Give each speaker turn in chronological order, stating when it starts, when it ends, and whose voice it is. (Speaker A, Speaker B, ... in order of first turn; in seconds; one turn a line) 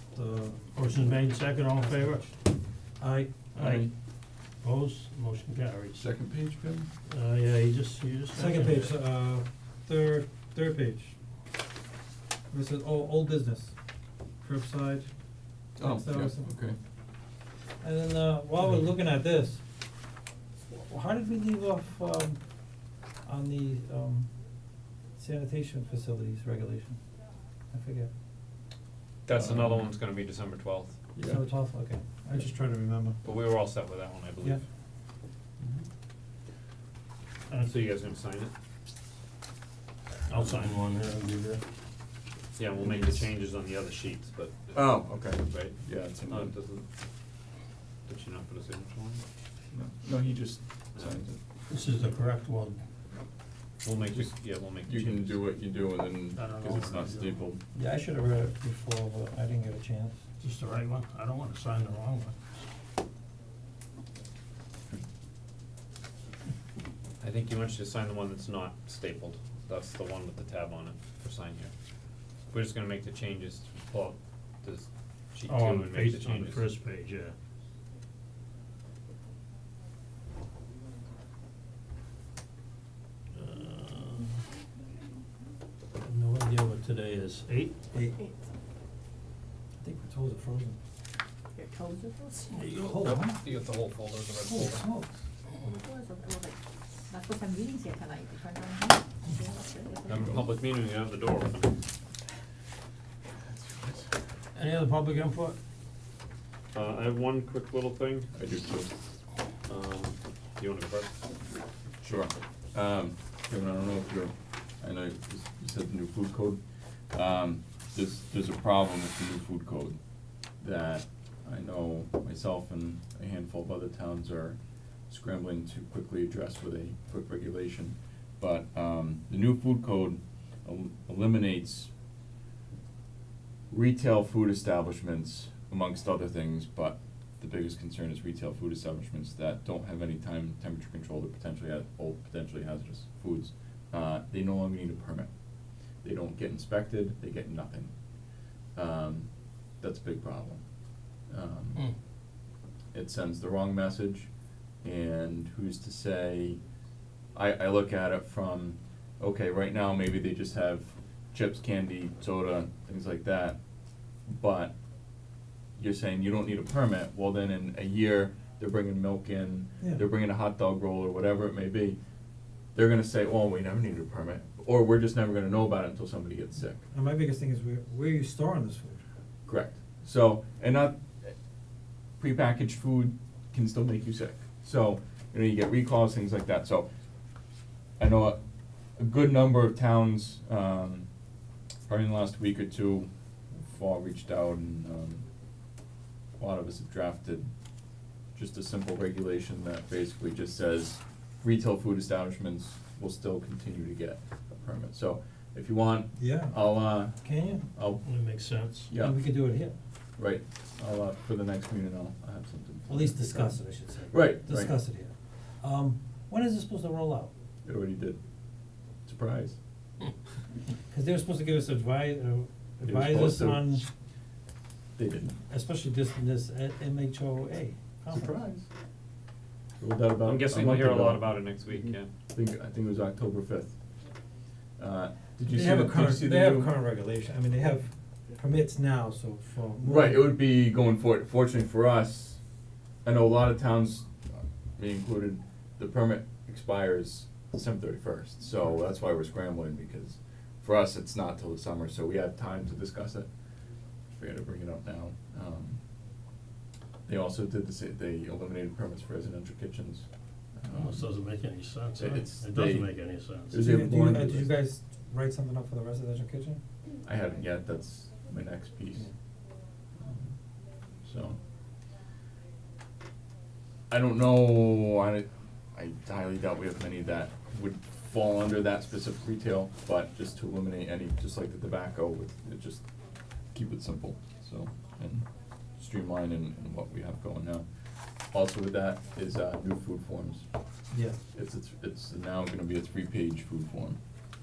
Speaker A: 0.1-0.7
Speaker B: 0.7-2.4
Speaker A: 3.0-3.4
Speaker B: 3.5-3.9
Speaker C: 3.6-3.9
Speaker B: 4.6-6.1
Speaker C: 6.0-6.9
Speaker B: 7.1-8.9
Speaker A: 8.3-11.2
Speaker A: 12.5-13.8
Speaker A: 14.4-15.1
Speaker C: 15.8-16.8
Speaker A: 15.8-16.5
Speaker A: 17.8-19.6
Speaker A: 20.7-22.4
Speaker A: 23.2-24.3
Speaker A: 25.2-27.0
Speaker A: 27.7-28.1
Speaker D: 29.3-31.0
Speaker C: 29.3-29.9
Speaker C: 31.1-31.4
Speaker A: 31.3-33.2
Speaker D: 33.2-34.6
Speaker C: 35.6-35.9
Speaker D: 37.5-38.5
Speaker B: 40.3-41.6
Speaker D: 42.6-45.8
Speaker C: 44.7-46.5
Speaker D: 46.3-46.9
Speaker D: 48.1-49.2
Speaker C: 49.7-51.4
Speaker B: 51.7-52.8
Speaker D: 53.8-55.4
Speaker C: 54.0-57.6
Speaker B: 56.4-57.3
Speaker A: 57.8-60.2
Speaker B: 60.4-62.4
Speaker D: 67.2-71.7
Speaker D: 72.5-76.7
Speaker B: 75.5-77.3
Speaker B: 83.3-84.4
Speaker B: 86.0-87.8
Speaker A: 87.9-88.2
Speaker A: 89.8-90.8
Speaker E: 92.0-92.3
Speaker B: 92.5-93.1
Speaker A: 92.9-93.4
Speaker D: 93.0-94.8
Speaker A: 94.4-95.2
Speaker E: 95.9-96.5
Speaker E: 97.1-100.2
Speaker D: 100.1-101.8
Speaker C: 103.5-104.1
Speaker B: 104.5-105.6
Speaker D: 106.7-108.3
Speaker C: 108.3-108.9
Speaker D: 109.7-111.2
Speaker C: 112.0-116.6
Speaker C: 117.1-120.0
Speaker C: 120.6-124.6
Speaker C: 125.1-131.9
Speaker C: 133.7-145.3
Speaker C: 146.0-147.9
Speaker C: 148.8-149.3
Speaker C: 149.8-150.6
Speaker C: 151.3-151.9
Speaker C: 152.9-154.3
Speaker C: 154.8-156.6
Speaker C: 157.3-163.6
Speaker C: 164.3-164.7
Speaker C: 165.8-172.0
Speaker C: 172.7-176.8
Speaker A: 176.9-179.0
Speaker C: 179.5-181.3
Speaker C: 182.2-186.9
Speaker C: 188.0-188.4
Speaker C: 189.0-191.1
Speaker C: 191.9-193.1
Speaker C: 193.7-195.2
Speaker C: 196.4-197.5
Speaker C: 198.3-207.2
Speaker A: 206.2-207.7
Speaker C: 207.8-208.0
Speaker B: 208.0-208.9
Speaker C: 208.9-209.3
Speaker A: 209.0-209.8
Speaker C: 210.2-213.6
Speaker A: 212.9-217.3
Speaker C: 214.1-214.8
Speaker C: 217.7-218.2
Speaker C: 219.1-219.6
Speaker A: 220.9-223.9
Speaker C: 222.8-223.8
Speaker C: 225.0-225.3
Speaker A: 225.5-228.3
Speaker C: 228.1-228.7
Speaker C: 229.8-231.4
Speaker D: 230.2-232.1
Speaker C: 232.3-233.8
Speaker C: 234.8-236.7
Speaker A: 235.5-240.3
Speaker C: 239.8-242.4
Speaker C: 243.0-253.3
Speaker C: 254.1-255.8
Speaker C: 257.1-260.1
Speaker C: 260.6-261.1
Speaker B: 260.7-263.6
Speaker C: 262.0-264.5
Speaker A: 263.6-266.6
Speaker C: 267.0-269.1
Speaker C: 270.0-270.3
Speaker C: 271.1-271.4
Speaker C: 273.9-282.8
Speaker C: 283.5-287.6
Speaker C: 288.3-290.5
Speaker A: 290.9-291.2
Speaker C: 291.3-294.0